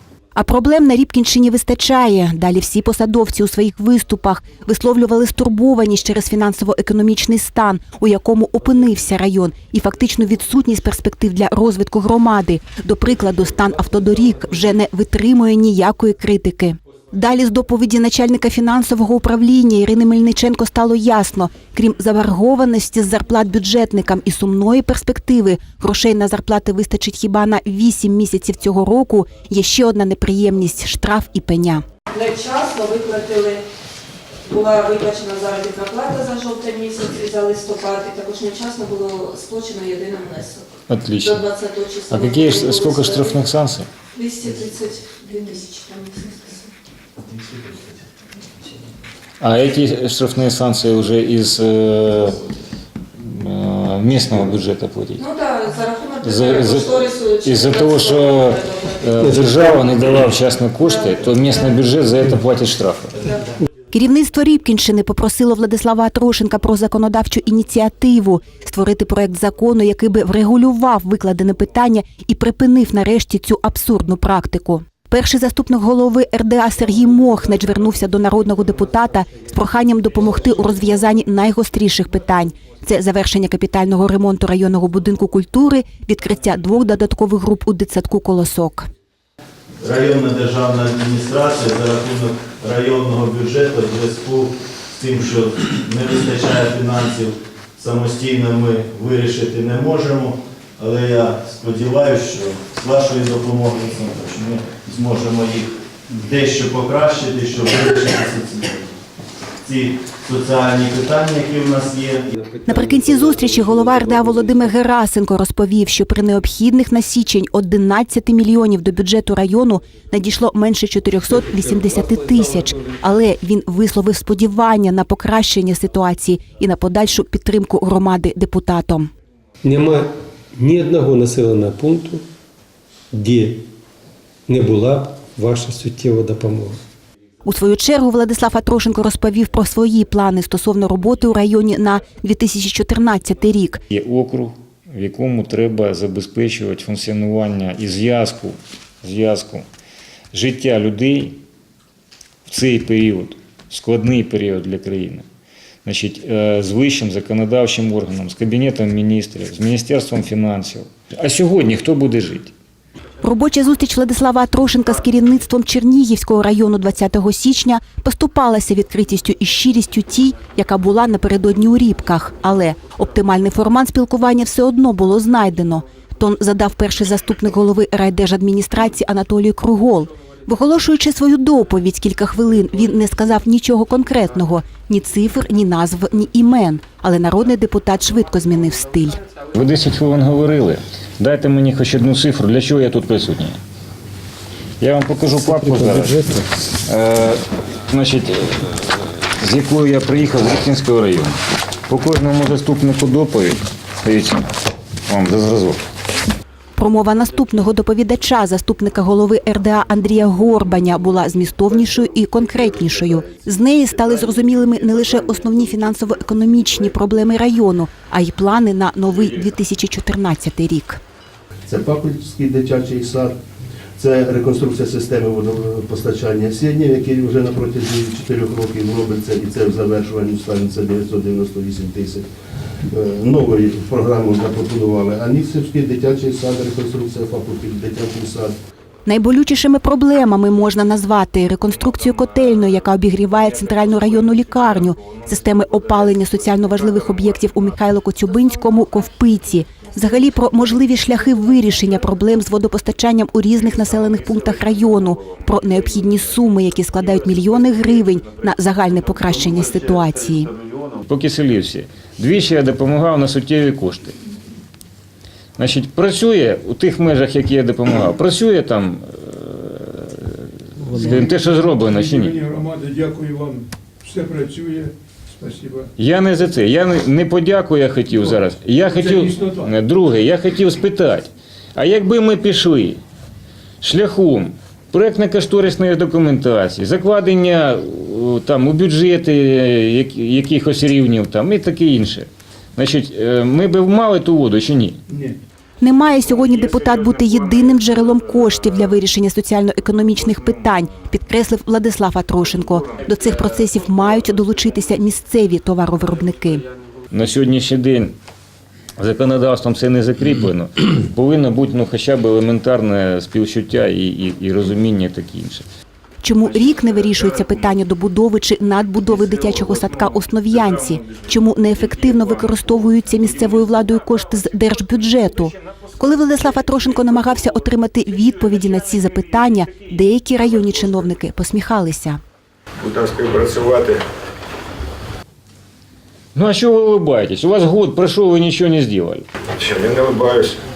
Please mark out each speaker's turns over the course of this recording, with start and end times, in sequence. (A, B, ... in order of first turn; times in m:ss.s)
0:00.4-0:31.8 A
0:32.1-0:33.6 B
0:34.4-0:43.3 B
0:40.9-0:41.5 C
0:42.1-0:43.9 C
0:44.1-0:46.7 B
0:49.4-0:52.4 C
0:53.2-0:55.2 C
0:55.2-0:59.2 B
0:56.2-1:03.2 C
1:00.8-1:01.2 B
1:03.9-1:28.9 A
1:29.8-1:48.9 D
1:49.6-1:52.3 D
1:52.3-1:54.8 E
1:52.6-2:09.1 A
2:01.3-2:03.0 E
2:09.6-2:12.2 E
2:13.1-2:13.6 E
2:14.5-2:16.8 E
2:17.4-2:23.8 A
2:23.9-2:29.6 C
2:30.3-2:31.4 C
2:32.5-2:35.2 C
2:35.8-2:42.5 C
2:43.2-3:09.2 A
3:09.5-3:13.6 C
3:14.8-3:24.6 C
3:15.4-3:16.5 E
3:25.1-3:25.8 C
3:26.8-3:41.0 A
3:41.7-3:43.3 F
3:44.0-3:52.2 F
3:52.8-3:58.6 F
3:59.1-4:20.5 A
4:02.0-4:07.5 C
4:13.8-4:15.4 C
4:20.9-4:24.2 C
4:25.6-4:32.4 C
4:31.2-4:35.9 G
4:36.0-4:43.0 C
4:38.9-4:39.7 G
4:43.8-4:55.0 C
4:55.1-4:55.4 G
4:55.8-5:06.6 A
5:07.1-5:08.2 C
5:09.0-5:15.6 C
5:16.2-5:32.2 A
5:16.6-5:17.6 C
5:19.0-5:21.3 C
5:21.9-5:22.7 C
5:23.4-5:23.7 C
5:32.9-5:34.0 H
5:36.3-5:39.2 C
5:39.7-5:40.5 H